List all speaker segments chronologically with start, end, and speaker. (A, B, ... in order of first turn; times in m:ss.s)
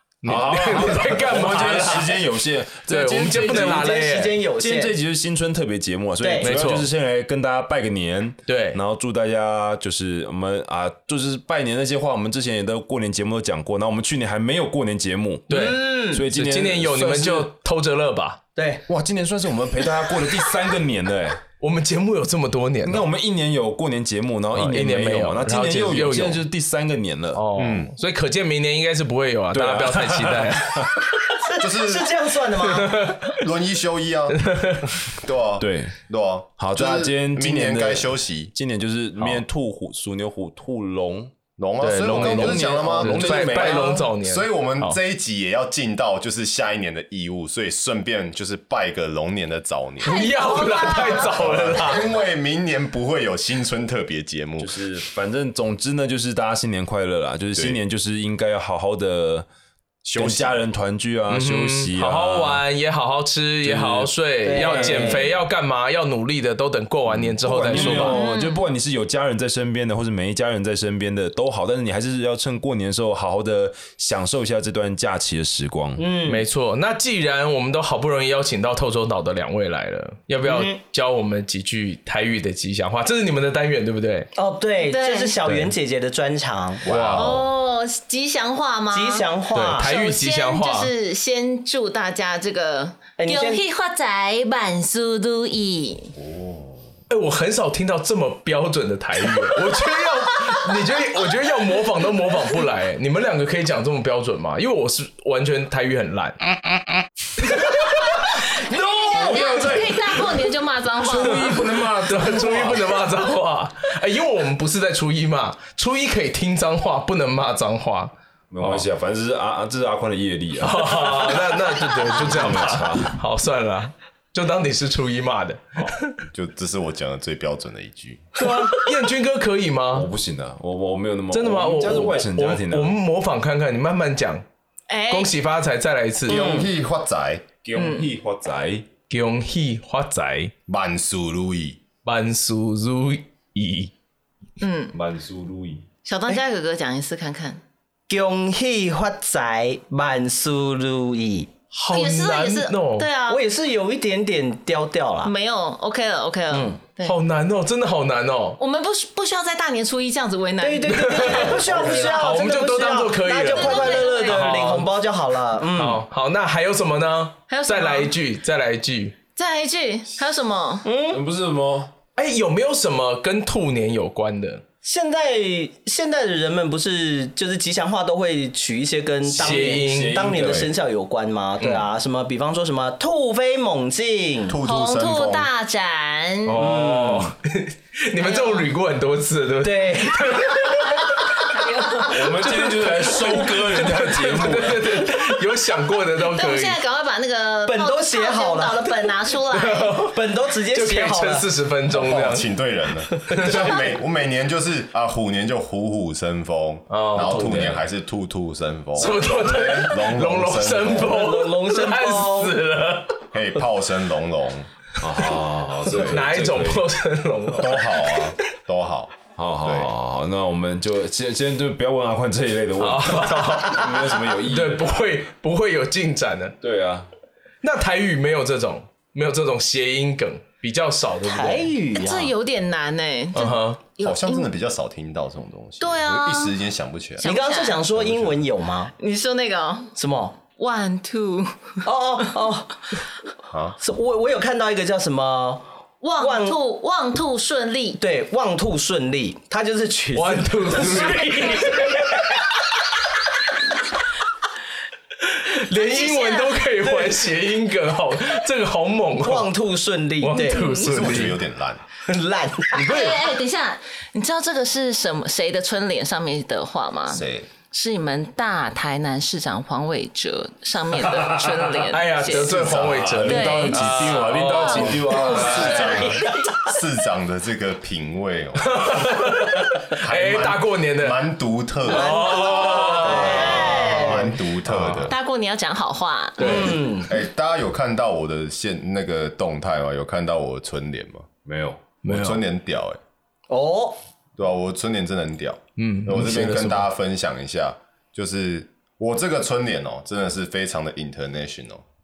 0:00.2-0:02.2 A
0:00.2-0:17.5 B
0:02.9-0:04.4 A
0:03.5-0:04.9 C
0:06.2-0:06.5 C
0:06.4-0:06.9 A
0:08.5-0:08.8 A
0:15.5-0:18.4 A
0:15.5-0:16.2 C
0:18.6-0:18.8 C
0:18.9-0:21.4 B
0:21.6-0:23.1 A
0:22.8-0:27.4 B
0:24.5-0:26.4 A
0:27.3-0:30.9 A
0:27.6-0:27.9 D
0:29.5-0:30.9 B
0:31.3-0:33.1 C
0:31.6-0:32.2 D
0:32.7-0:33.4 A
0:33.3-0:38.5 D
0:34.4-0:34.9 A
0:35.6-0:36.0 B
0:36.6-0:41.3 B
0:41.6-0:54.8 D
0:41.8-0:45.0 A
0:42.1-0:44.1 B
0:50.0-0:51.7 E
0:50.0-0:52.1 A
0:54.6-0:59.5 B
1:00.0-1:00.6 D
1:00.2-1:02.6 B
1:01.3-1:08.2 A
1:03.6-1:05.3 B
1:04.4-1:05.3 C
1:07.2-1:16.1 B
1:08.0-1:08.6 E
1:16.0-1:16.4 C
1:16.3-1:24.3 A
1:20.5-1:20.8 C
1:24.4-1:26.9 C
1:24.8-1:25.4 E
1:26.8-1:27.4 D
1:26.9-1:27.4 A
1:27.1-1:36.1 E
1:28.9-1:29.9 C
1:29.5-1:30.9 A
1:33.2-1:33.6 C
1:36.2-1:36.8 D
1:37.1-1:46.4 A
1:47.5-1:47.8 A
1:47.8-1:51.9 E
1:49.1-1:50.2 B
1:51.0-1:53.0 B
1:52.0-1:58.8 A
1:58.5-2:01.4 B
2:00.6-2:06.2 A
2:02.0-2:03.2 B
2:06.3-2:08.3 D
2:08.4-2:10.1 A
2:09.9-2:13.0 B
2:11.3-2:14.4 A
2:14.9-2:15.3 E
2:15.1-2:16.5 A
2:16.3-2:17.5 D
2:16.3-2:16.7 C
2:17.6-2:18.9 B
2:17.8-2:18.1 E
2:19.1-2:20.5 A
2:20.7-2:21.8 D
2:22.0-2:23.9 A
2:24.6-2:25.0 E
2:24.9-2:25.9 B
2:26.0-2:27.6 E
2:28.1-2:31.5 C
2:31.7-2:33.1 A
2:31.9-2:33.4 E
2:33.3-2:35.3 C
2:35.2-2:37.2 E
2:36.5-2:36.8 C
2:37.0-2:38.6 A
2:38.6-2:41.6 E
2:40.6-2:46.0 C
2:40.9-2:44.9 A
2:41.6-2:42.2 D
2:43.3-2:44.6 E
2:45.7-2:49.2 A
2:47.5-2:48.1 E
2:49.4-2:50.9 E
2:50.8-2:51.2 C
2:51.1-2:51.9 B
2:52.2-2:54.6 A
2:54.8-3:04.6 C
2:59.3-3:00.7 B
2:59.4-3:00.2 A
3:00.4-3:00.7 D
3:01.6-3:01.9 A
3:04.5-3:05.5 D
3:04.6-3:06.6 E
3:06.5-3:11.2 A
3:06.6-3:07.3 C
3:08.3-3:08.6 E
3:09.6-3:10.4 C
3:11.5-3:12.2 E
3:12.1-3:15.0 B
3:12.4-3:16.8 A
3:16.2-3:20.0 E
3:17.7-3:19.0 C
3:19.5-3:22.5 A
3:20.1-3:21.5 C
3:21.9-3:31.2 D
3:23.1-3:23.5 C
3:23.3-3:23.9 A
3:26.9-3:27.8 A
3:27.3-3:27.8 B
3:29.0-3:33.2 A
3:30.9-3:32.6 C
3:33.3-3:34.7 D
3:35.0-3:36.9 B
3:35.9-3:36.3 D
3:36.0-3:38.2 A
3:37.6-3:39.9 D
3:39.4-3:45.0 B
3:42.8-3:43.8 A
3:44.5-3:46.6 A
3:46.6-3:47.1 B
3:47.6-3:51.8 A
3:51.2-3:52.3 C
3:51.9-3:54.5 E
3:53.4-3:53.8 A
3:54.0-3:57.3 D
3:55.8-3:56.6 E
3:57.2-3:57.8 E
3:57.2-3:58.9 C
3:57.9-3:58.4 D
3:59.0-3:59.9 E
4:00.0-4:00.4 C
4:00.6-4:01.8 E
4:01.8-4:02.8 C
4:03.5-4:03.8 D
4:03.8-4:05.7 C
4:06.0-4:08.0 E
4:06.2-4:06.6 C
4:08.0-4:12.2 C
4:10.1-4:12.3 A
4:15.2-4:19.5 A
4:15.7-4:16.7 E
4:19.2-4:20.8 C
4:20.2-4:21.4 A
4:20.5-4:20.8 E
4:20.8-4:21.9 D
4:22.0-4:23.2 C
4:22.7-4:32.7 E
4:27.1-4:27.5 D
4:31.0-4:31.7 B
4:31.9-4:36.0 A
4:32.3-4:33.2 D
4:32.6-4:35.9 B
4:33.2-4:36.2 E
4:35.2-4:39.3 D
4:36.3-4:36.6 C
4:38.6-4:41.2 A
4:40.0-4:42.5 D
4:41.8-4:43.8 A
4:41.9-4:44.3 C
4:42.7-4:44.3 E
4:43.0-4:45.2 D
4:44.7-4:45.1 A
4:45.0-4:46.9 E
4:46.4-4:47.1 C
4:46.4-4:46.8 A
4:47.1-4:51.3 D
4:51.4-4:51.8 B
4:52.0-4:52.4 A
4:52.1-4:53.0 D
4:53.5-4:54.0 C
4:54.4-5:01.8 D
4:55.8-4:56.9 A